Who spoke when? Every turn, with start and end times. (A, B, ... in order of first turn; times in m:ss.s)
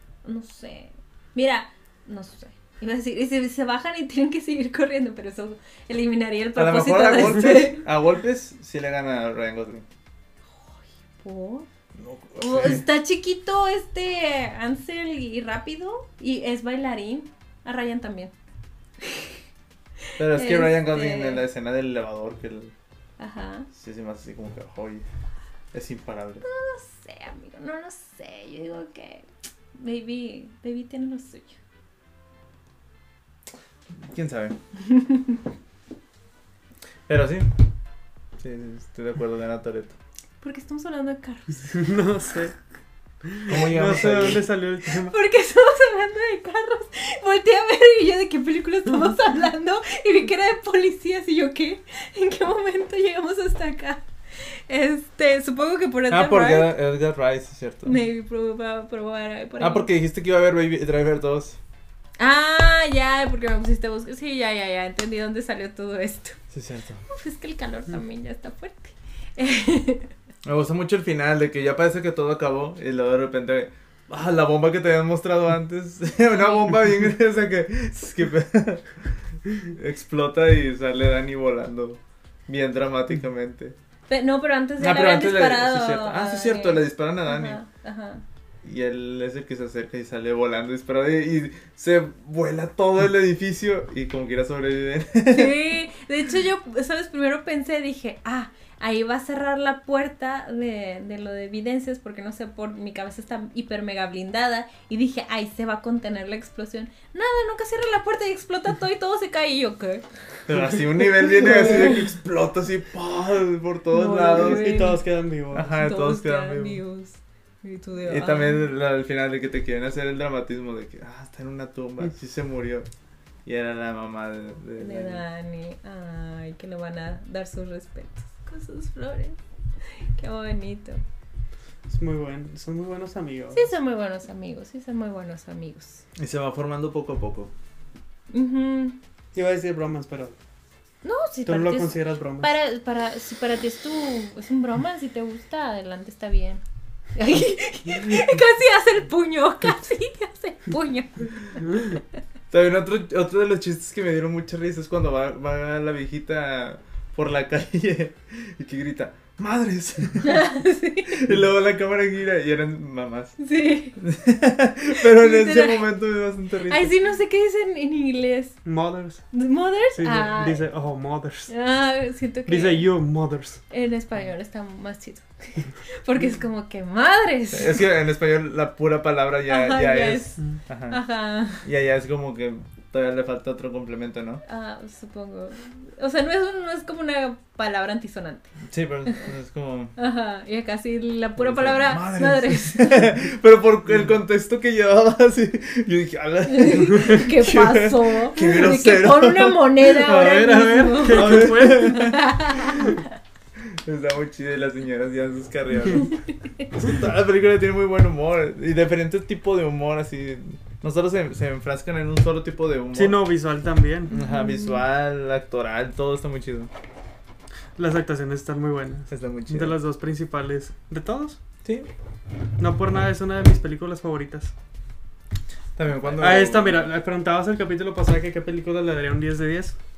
0:00.2-0:07.9 A
0:06.6-0:09.9 B
0:10.6-0:11.7 A
0:12.0-0:12.8 B
0:12.4-0:18.3 A
0:19.0-0:19.4 A
0:20.2-0:21.4 A
0:20.2-0:22.7 B
0:23.2-0:23.7 A
0:23.7-0:25.0 B
0:25.7-0:26.4 B
0:26.4-0:31.6 A
0:34.0-0:34.6 B
0:34.9-0:35.4 A
0:37.1-0:37.5 B
0:38.4-0:40.0 B
0:40.4-0:42.0 A
0:41.7-0:42.6 C
0:43.2-0:45.1 C
0:43.5-0:44.4 B
0:44.9-0:56.7 A
0:56.1-0:58.0 B
0:57.9-0:59.9 A
0:59.6-1:01.6 B
1:02.2-1:06.4 A
1:06.5-1:07.0 B
1:07.1-1:10.1 A
1:10.4-1:23.8 B
1:16.3-1:16.6 A
1:24.1-1:28.2 A
1:24.8-1:27.6 B
1:28.6-1:35.6 B
1:35.3-1:50.0 A
1:50.5-1:54.8 B
1:51.2-1:52.0 A
1:53.9-1:55.0 A
1:54.2-1:55.8 C
1:55.5-1:56.8 B
1:55.8-1:58.7 A
1:58.0-2:02.9 B
2:03.4-2:05.2 B
2:04.8-2:09.4 A
2:09.9-2:11.0 A
2:11.9-2:13.7 C
2:13.5-2:16.0 A
2:16.2-2:17.5 B
2:18.3-2:19.0 A
2:19.3-2:20.4 C
2:21.0-2:26.6 A
2:21.4-2:22.5 C
2:27.1-2:32.0 A
2:32.5-2:40.5 B
2:40.2-2:41.3 A
2:41.0-2:43.4 B
2:43.4-2:44.0 A
2:44.0-2:46.9 B
2:44.9-2:45.9 A
2:46.7-2:48.6 A
2:48.6-2:49.2 C
2:49.3-2:50.7 A
2:49.9-2:51.5 C
2:51.5-2:52.9 A
2:52.5-2:53.6 C
2:53.7-2:57.8 A
2:57.5-3:01.0 B
2:59.5-3:01.6 A
3:01.6-3:04.4 B
3:04.4-3:08.6 A
3:08.7-3:09.9 B
3:10.0-3:13.2 A
3:11.4-3:22.3 B
3:16.5-3:23.1 A
3:20.0-3:22.1 C
3:23.6-3:26.2 B
3:26.7-3:33.2 B
3:32.9-3:34.1 C
3:34.1-3:34.8 A
3:34.1-3:36.7 B
3:37.8-3:41.4 C
3:39.1-3:39.8 B
3:41.6-3:41.9 B
3:42.6-3:44.5 C
3:45.8-3:46.9 B
3:46.2-3:49.8 C